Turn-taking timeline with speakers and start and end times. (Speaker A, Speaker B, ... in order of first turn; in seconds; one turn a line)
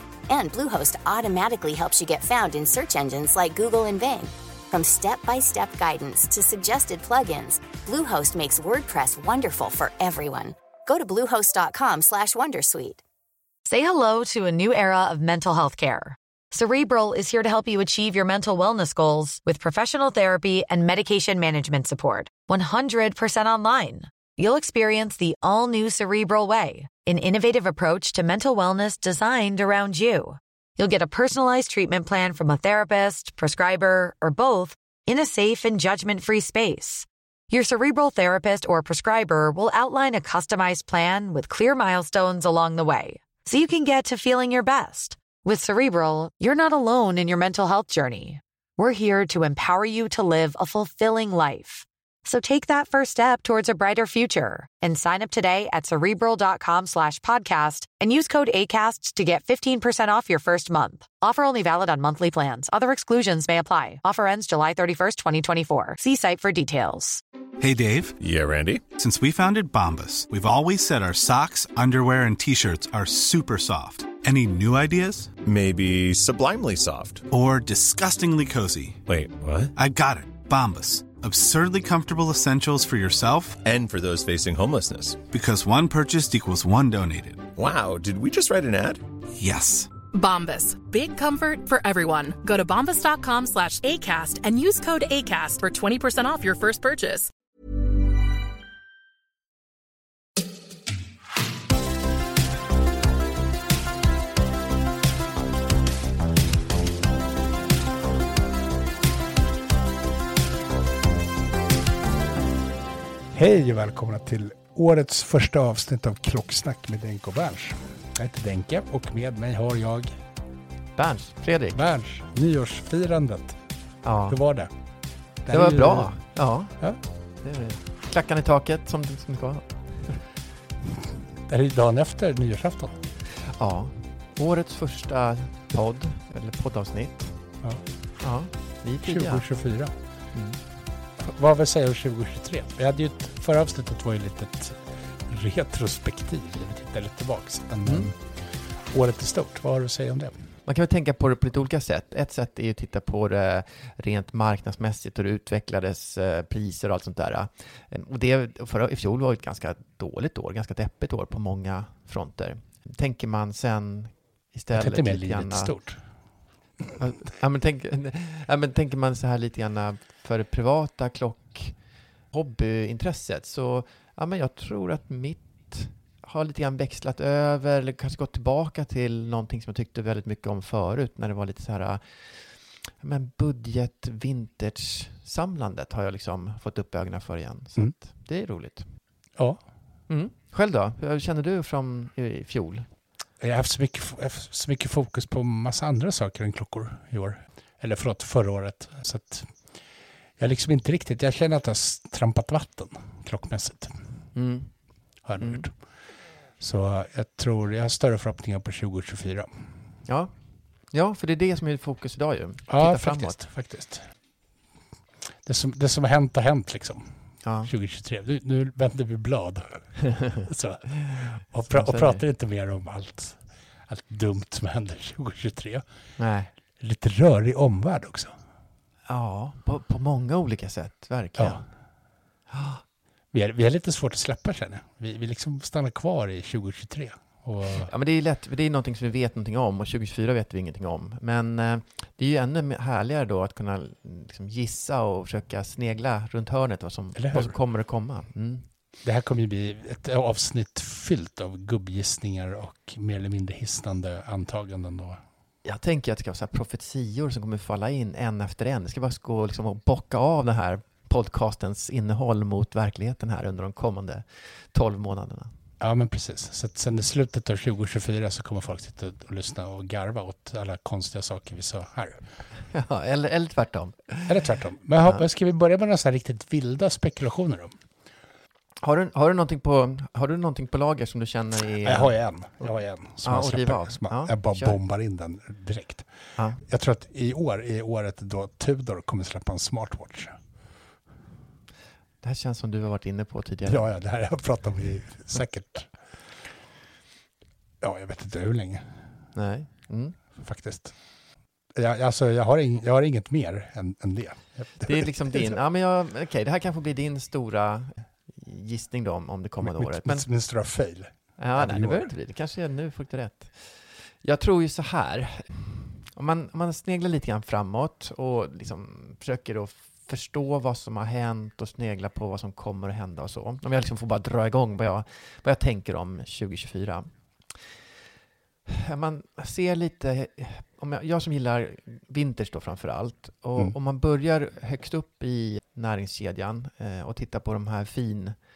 Speaker A: 0.3-13.0
Speaker B: 13.7-67.2
Speaker C: 67.6-68.2
Speaker D: 68.2-68.8
Speaker C: 68.9-75.3
Speaker D: 75.4-77.2
Speaker C: 77.3-79.0
Speaker D: 79.1-79.7
Speaker C: 79.7-83.6
Speaker D: 83.6-85.2
Speaker C: 85.3-87.5
Speaker D: 87.5-89.0
Speaker C: 89.3-90.0
Speaker E: 90.1-97.3
Speaker F: 113.3-120.1
Speaker G: 121.0-121.8
Speaker F: 121.7-123.6
Speaker G: 124.0-124.4
Speaker F: 124.3-124.7
Speaker F: 125.4-127.0
Speaker G: 125.5-126.8
Speaker G: 127.4-130.2
Speaker F: 131.5-133.0
Speaker G: 133.6-137.3
Speaker G: 138.2-139.4
Speaker F: 139.0-139.9
Speaker G: 140.3-140.6
Speaker F: 141.2-150.3
Speaker G: 147.8-148.1
Speaker G: 150.7-165.7
Speaker F: 164.7-166.0
Speaker G: 166.9-171.8
Speaker G: 172.3-188.8
Speaker F: 189.3-189.6
Speaker G: 190.1-192.9
Speaker F: 193.4-199.7
Speaker F: 200.4-204.0
Speaker G: 204.3-204.7
Speaker F: 205.2-205.7
Speaker G: 205.4-205.7
Speaker F: 206.6-209.7
Speaker G: 210.0-210.3
Speaker G: 210.9-213.4
Speaker F: 212.7-214.1
Speaker F: 215.4-225.8
Speaker G: 217.4-217.7
Speaker G: 221.7-222.2
Speaker G: 226.2-226.5
Speaker F: 226.8-228.3
Speaker G: 229.1-231.6
Speaker F: 231.3-231.7
Speaker G: 232.5-232.8
Speaker F: 233.3-237.9
Speaker G: 237.9-248.7
Speaker F: 247.2-247.5
Speaker F: 249.0-255.2
Speaker G: 255.6-265.5
Speaker F: 265.8-272.3
Speaker G: 272.7-274.4
Speaker F: 274.2-277.8
Speaker G: 278.8-284.8
Speaker F: 281.8-286.1
Speaker G: 286.4-286.6
Speaker F: 286.6-290.4
Speaker G: 292.2-293.9
Speaker F: 293.6-296.0
Speaker F: 297.8-299.1
Speaker G: 299.3-300.2
Speaker F: 300.4-301.0
Speaker F: 301.7-305.6
Speaker G: 304.8-310.3
Speaker F: 309.6-312.1
Speaker G: 311.4-327.1
Speaker G: 328.7-338.4